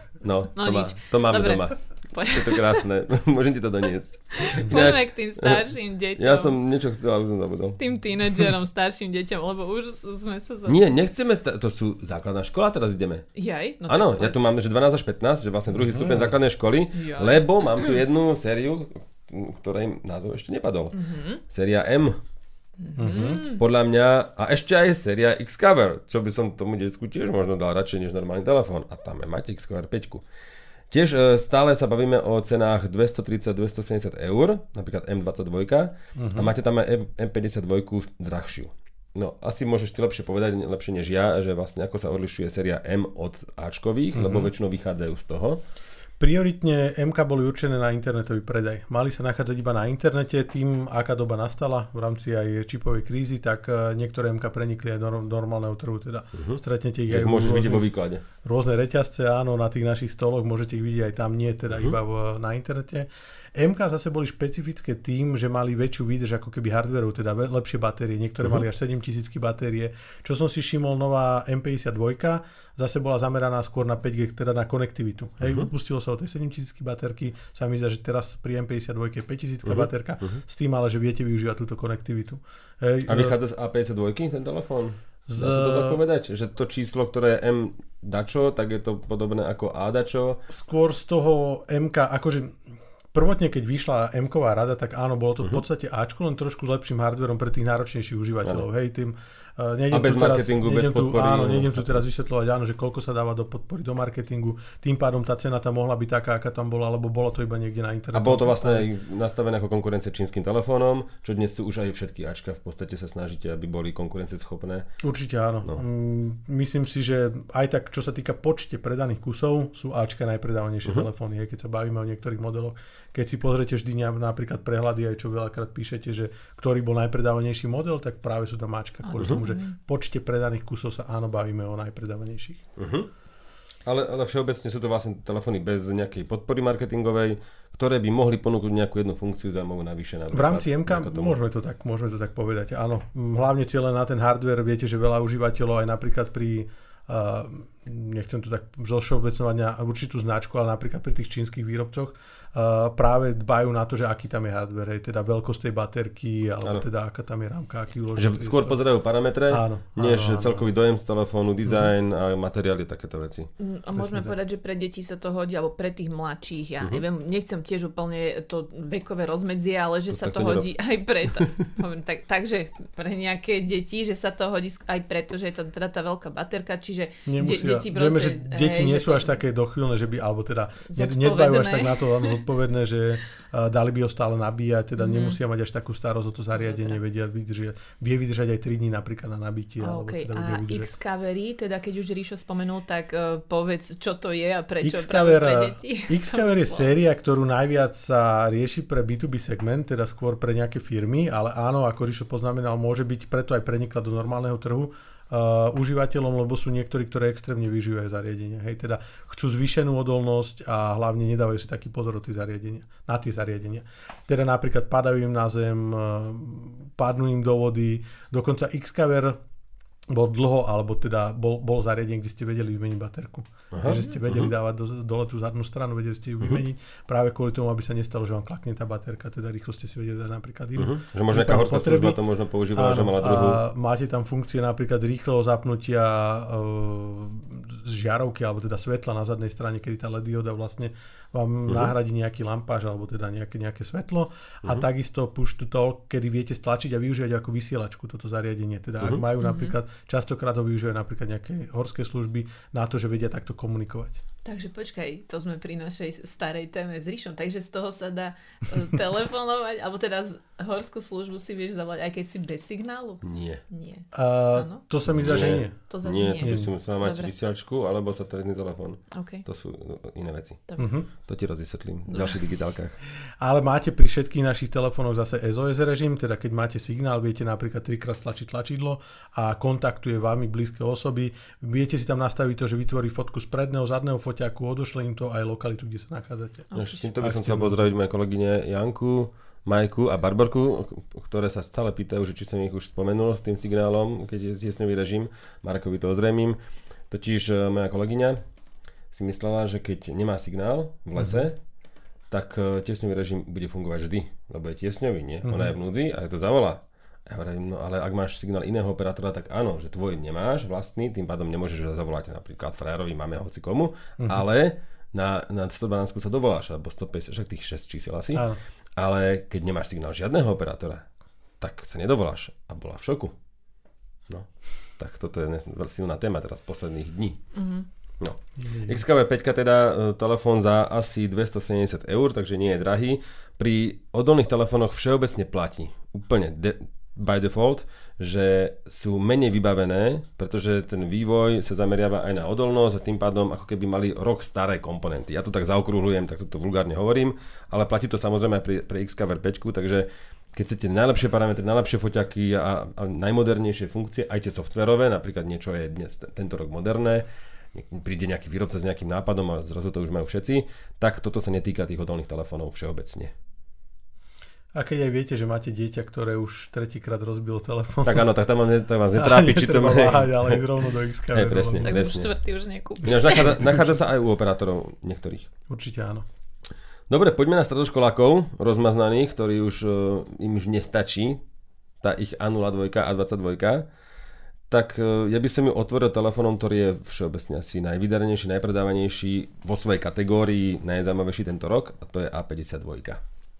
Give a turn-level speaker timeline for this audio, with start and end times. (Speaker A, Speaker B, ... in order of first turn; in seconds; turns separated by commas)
Speaker A: 0.2-7.8, Speaker B: 0.5-2.8, Speaker B: 4.3-6.5, Speaker B: 7.8-10.9, Speaker A: 10.7-13.3, Speaker B: 13.3-14.5, Speaker A: 13.9-21.0, Speaker C: 15.9-16.3, Speaker B: 16.9-17.9, Speaker B: 20.9-21.4, Speaker A: 21.5-22.2, Speaker B: 22.8-23.6, Speaker C: 22.9-23.4, Speaker A: 23.4-30.2, Speaker A: 30.9-45.6, Speaker C: 36.1-36.5, Speaker C: 44.1-44.5, Speaker C: 46.2-57.9, Speaker A: 56.3-58.2, Speaker C: 58.4-83.4, Speaker A: 75.4-75.7, Speaker A: 79.7-80.4, Speaker A: 83.1-90.4, Speaker C: 85.3-86.0, Speaker C: 90.5-92.6, Speaker C: 93.1-108.9, Speaker A: 99.9-102.0, Speaker A: 108.1-114.9, Speaker C: 115.0-132.6, Speaker B: 129.0-129.8, Speaker A: 132.8-133.1, Speaker A: 133.8-141.3, Speaker C: 140.3-158.8, Speaker A: 158.2-163.5, Speaker C: 159.5-160.7, Speaker B: 163.6-179.4, Speaker C: 163.9-164.3, Speaker A: 170.1-170.7, Speaker C: 177.2-190.9, Speaker B: 180.9-182.4, Speaker B: 185.0-185.4, Speaker B: 186.5-187.0, Speaker B: 189.8-196.9, Speaker C: 194.8-219.4, Speaker C: 220.1-232.2, Speaker A: 223.7-224.5, Speaker A: 230.8-233.6, Speaker C: 232.7-254.2, Speaker A: 241.7-241.9, Speaker B: 249.4-249.8, Speaker B: 254.4-267.3, Speaker A: 263.2-263.6, Speaker C: 264.1-265.7, Speaker A: 265.1-270.6, Speaker C: 266.4-266.7, Speaker B: 269.1-269.4, Speaker B: 270.7-270.9, Speaker C: 270.8-271.1, Speaker A: 271.2-273.0, Speaker B: 272.1-272.4, Speaker C: 273.4-286.7, Speaker B: 286.7-287.1, Speaker A: 286.7-296.6, Speaker C: 287.2-287.9, Speaker A: 297.1-298.4, Speaker A: 299.1-301.6, Speaker C: 301.2-301.5, Speaker A: 302.3-318.4, Speaker C: 305.4-305.7, Speaker C: 318.3-318.6, Speaker A: 319.0-321.0, Speaker A: 321.6-323.3, Speaker A: 324.3-327.4, Speaker B: 327.5-327.9, Speaker A: 328.2-363.3, Speaker C: 328.6-329.0, Speaker C: 364.7-368.2, Speaker A: 368.0-370.6, Speaker C: 369.1-372.0, Speaker A: 371.3-372.3, Speaker B: 371.8-373.6, Speaker A: 373.0-375.5, Speaker C: 373.6-374.0, Speaker C: 375.7-376.2, Speaker A: 377.1-381.4, Speaker A: 382.0-383.9, Speaker A: 384.7-393.2